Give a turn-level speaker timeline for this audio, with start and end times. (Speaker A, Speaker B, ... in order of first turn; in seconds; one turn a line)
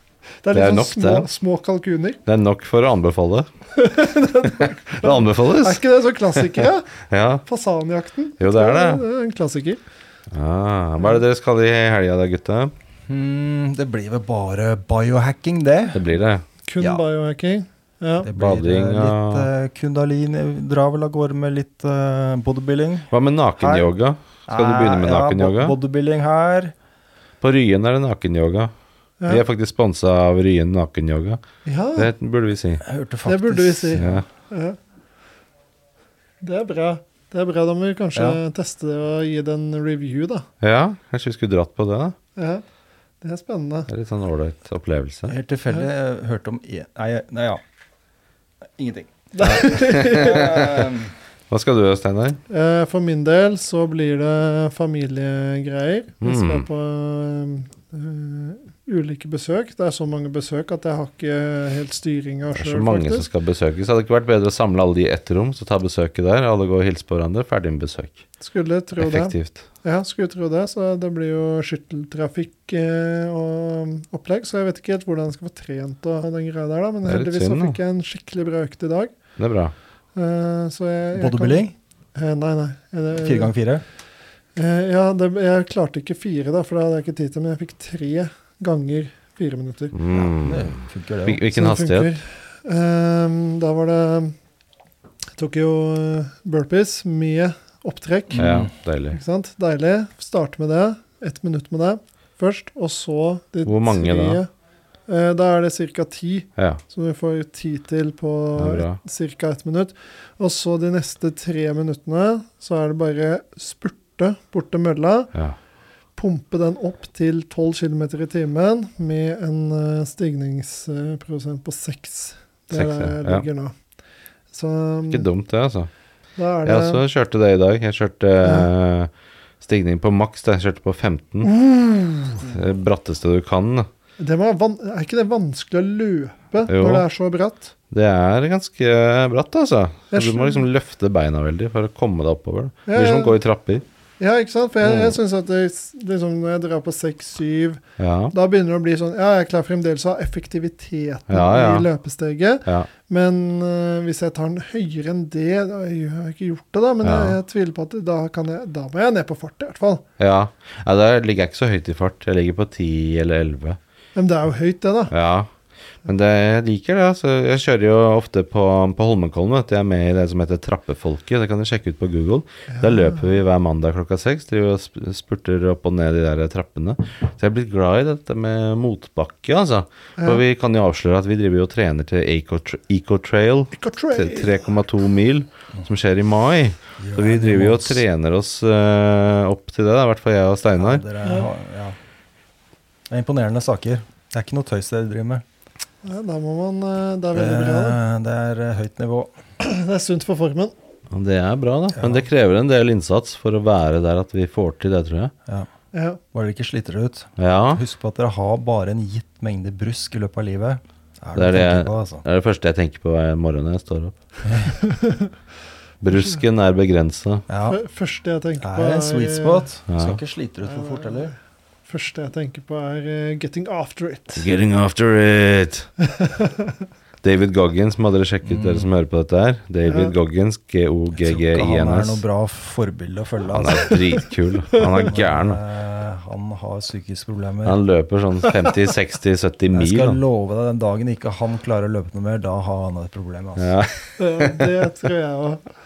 Speaker A: 0.4-2.2
Speaker B: 0.5-1.3
Speaker B: 2.3-3.5
Speaker A: 3.8-6.9
Speaker B: 4.4-7.5
Speaker A: 7.5-9.8
Speaker B: 8.4-9.1
Speaker B: 10.3-12.7
Speaker C: 13.1-16.0
Speaker B: 15.9-16.4
Speaker A: 16.7-18.3
Speaker C: 18.2-23.9
Speaker B: 18.3-19.5
Speaker B: 23.1-25.8
Speaker C: 24.5-26.7
Speaker B: 27.4-28.7
Speaker B: 29.3-31.4
Speaker A: 31.7-32.1
Speaker B: 31.9-32.8
Speaker C: 32.8-34.2
Speaker A: 33.3-34.8
Speaker B: 34.0-34.2
Speaker A: 36.4-40.5
Speaker B: 40.6-42.2
Speaker A: 42.4-42.6
Speaker A: 43.2-43.9
Speaker B: 43.9-45.3
Speaker C: 45.3-47.6
Speaker C: 48.8-51.1
Speaker A: 49.4-50.5
Speaker B: 49.4-50.9
Speaker B: 51.5-52.4
Speaker A: 52.5-63.3
Speaker B: 56.2-56.7
Speaker B: 62.5-68.2
Speaker A: 68.4-79.2
Speaker B: 69.0-69.7
Speaker B: 77.0-77.8
Speaker B: 79.4-79.7
Speaker A: 80.2-83.5
Speaker C: 81.2-81.7
Speaker C: 83.1-83.8
Speaker A: 84.6-90.0
Speaker B: 89.9-92.2
Speaker C: 90.1-91.4
Speaker A: 91.5-94.3
Speaker A: 95.4-98.5
Speaker C: 98.3-98.7
Speaker B: 98.3-99.2
Speaker A: 99.1-104.5
Speaker B: 103.7-104.4
Speaker A: 105.1-115.3
Speaker B: 108.6-109.0
Speaker A: 116.2-123.7
Speaker B: 122.7-123.5
Speaker A: 124.5-125.3
Speaker B: 125.1-125.9
Speaker A: 126.4-127.0
Speaker B: 126.7-131.5
Speaker A: 128.4-128.7
Speaker A: 131.4-132.5
Speaker B: 132.4-133.9
Speaker A: 134.2-137.7
Speaker B: 136.7-137.1
Speaker B: 137.9-143.8
Speaker A: 140.1-140.7
Speaker A: 142.9-143.4
Speaker A: 144.2-147.8
Speaker B: 144.8-145.2
Speaker B: 148.0-148.3
Speaker A: 148.3-160.0
Speaker B: 151.3-151.9
Speaker B: 157.0-157.4
Speaker B: 160.2-163.8
Speaker A: 164.2-165.1
Speaker B: 165.1-165.5
Speaker B: 166.1-191.0
Speaker A: 172.7-173.3
Speaker A: 183.8-184.6
Speaker C: 187.0-188.0
Speaker C: 190.8-192.0
Speaker A: 191.2-191.5
Speaker C: 193.1-195.4
Speaker A: 196.0-198.0
Speaker C: 197.3-199.3
Speaker A: 199.6-200.7
Speaker B: 201.1-205.3
Speaker C: 201.9-202.2
Speaker A: 205.9-206.2
Speaker C: 206.3-212.2
Speaker B: 207.4-207.8
Speaker B: 211.3-214.2
Speaker C: 214.4-214.7
Speaker A: 214.8-215.3
Speaker B: 216.0-217.5
Speaker C: 217.5-217.8
Speaker A: 217.7-219.7
Speaker C: 218.6-221.3
Speaker B: 219.9-220.2
Speaker A: 220.7-221.3
Speaker A: 221.9-224.5
Speaker B: 224.4-225.9
Speaker A: 226.2-226.7
Speaker B: 227.2-232.2
Speaker C: 228.4-228.9
Speaker A: 229.8-230.2
Speaker C: 231.2-234.0
Speaker B: 233.5-235.6
Speaker A: 234.7-235.1
Speaker C: 235.0-237.8
Speaker B: 237.7-240.2
Speaker C: 239.7-243.8
Speaker B: 243.6-244.8
Speaker A: 244.2-245.6